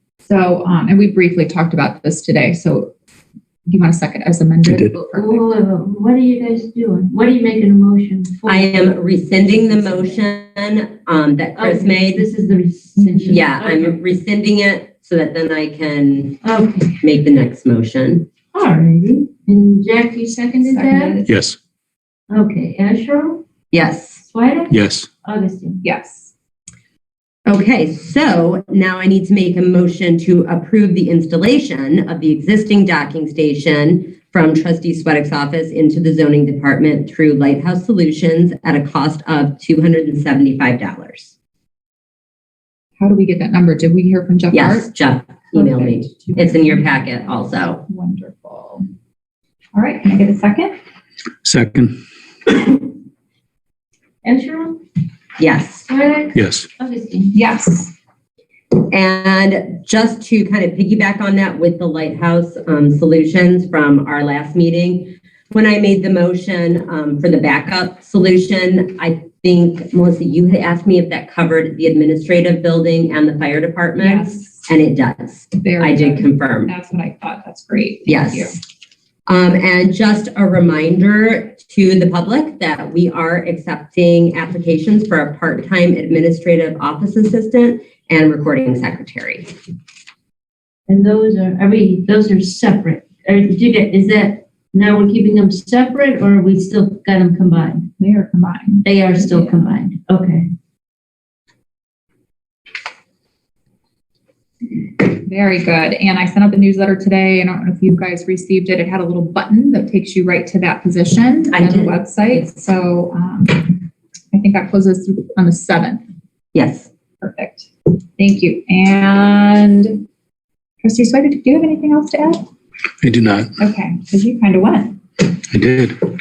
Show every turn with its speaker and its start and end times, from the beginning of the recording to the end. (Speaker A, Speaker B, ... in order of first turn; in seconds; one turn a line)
Speaker A: 0.2-2.9
Speaker A: 3.7-5.5
Speaker B: 4.7-5.0
Speaker C: 5.1-8.9
Speaker D: 8.5-12.3
Speaker C: 11.6-14.0
Speaker A: 13.0-13.4
Speaker D: 13.3-16.4
Speaker C: 16.4-17.0
Speaker D: 17.0-18.3
Speaker C: 18.5-21.2
Speaker A: 20.6-21.4
Speaker B: 21.3-21.6
Speaker C: 22.3-23.4
Speaker D: 23.7-24.2
Speaker C: 24.2-25.8
Speaker B: 24.7-25.1
Speaker A: 25.8-26.3
Speaker D: 27.5-41.3
Speaker A: 43.0-44.9
Speaker D: 44.5-47.9
Speaker A: 45.5-48.9
Speaker A: 49.7-50.7
Speaker B: 51.4-52.0
Speaker C: 54.2-54.8
Speaker D: 55.4-55.9
Speaker C: 55.9-57.4
Speaker B: 56.4-56.7
Speaker A: 57.3-57.9
Speaker D: 58.8-76.7
Speaker A: 74.0-74.7
Speaker A: 75.6-78.6
Speaker D: 78.1-78.6
Speaker D: 79.3-89.5
Speaker C: 90.9-97.9
Speaker A: 98.0-99.7
Speaker C: 98.8-100.5
Speaker A: 104.9-116.0
Speaker D: 111.5-112.0
Speaker D: 116.5-116.9
Speaker A: 117.2-120.0
Speaker A: 120.8-122.5
Speaker B: 123.0-123.5
Speaker A: 123.6-125.2
Speaker B: 125.5-126.0